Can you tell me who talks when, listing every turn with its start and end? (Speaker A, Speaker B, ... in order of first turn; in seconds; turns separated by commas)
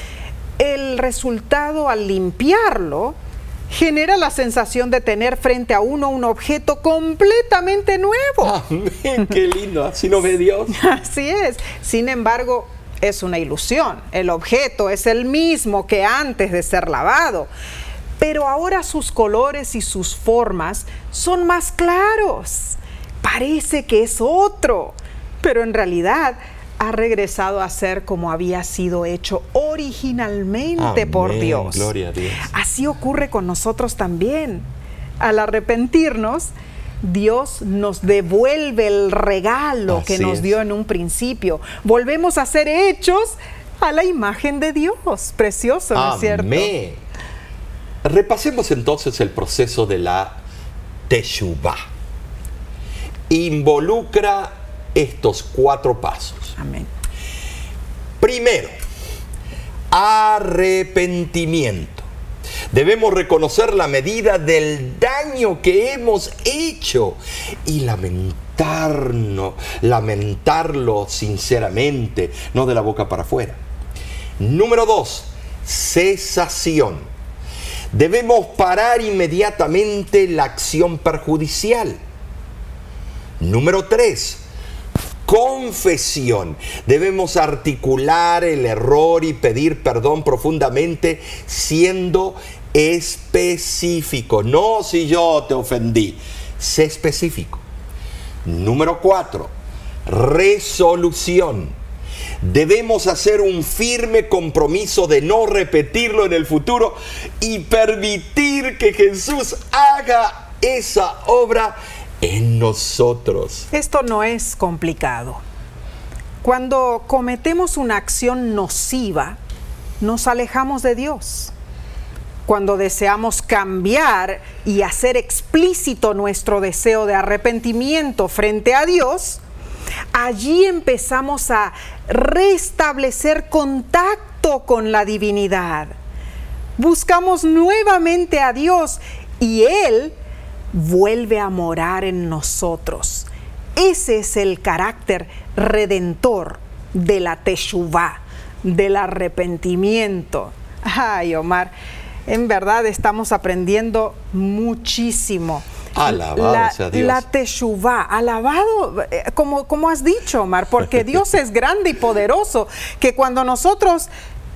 Speaker A: 0.6-3.1, Speaker A: 3.7-8.5, Speaker B: 8.4-10.7, Speaker A: 10.7-17.5, Speaker A: 18.2-31.9, Speaker B: 30.8-32.5, Speaker A: 32.5-34.6, Speaker A: 35.2-36.5, Speaker A: 37.0-46.7, Speaker B: 39.9-40.5, Speaker B: 45.9-47.0, Speaker B: 48.0-50.4, Speaker B: 51.1-51.8, Speaker B: 53.3-56.5, Speaker A: 56.6-56.9, Speaker B: 58.2-58.7, Speaker B: 59.9-62.1, Speaker B: 62.7-73.6, Speaker B: 74.4-77.1, Speaker B: 77.9-82.0, Speaker B: 83.4-84.4, Speaker B: 85.2-97.6, Speaker B: 98.4-99.5, Speaker B: 100.0-101.8, Speaker B: 102.4-113.7, Speaker A: 113.7-115.4, Speaker A: 116.4-119.4, Speaker A: 120.0-121.5, Speaker A: 122.5-129.4, Speaker A: 130.1-135.9, Speaker A: 136.8-140.1, Speaker A: 140.7-151.7, Speaker A: 152.3-164.1, Speaker B: 155.9-157.2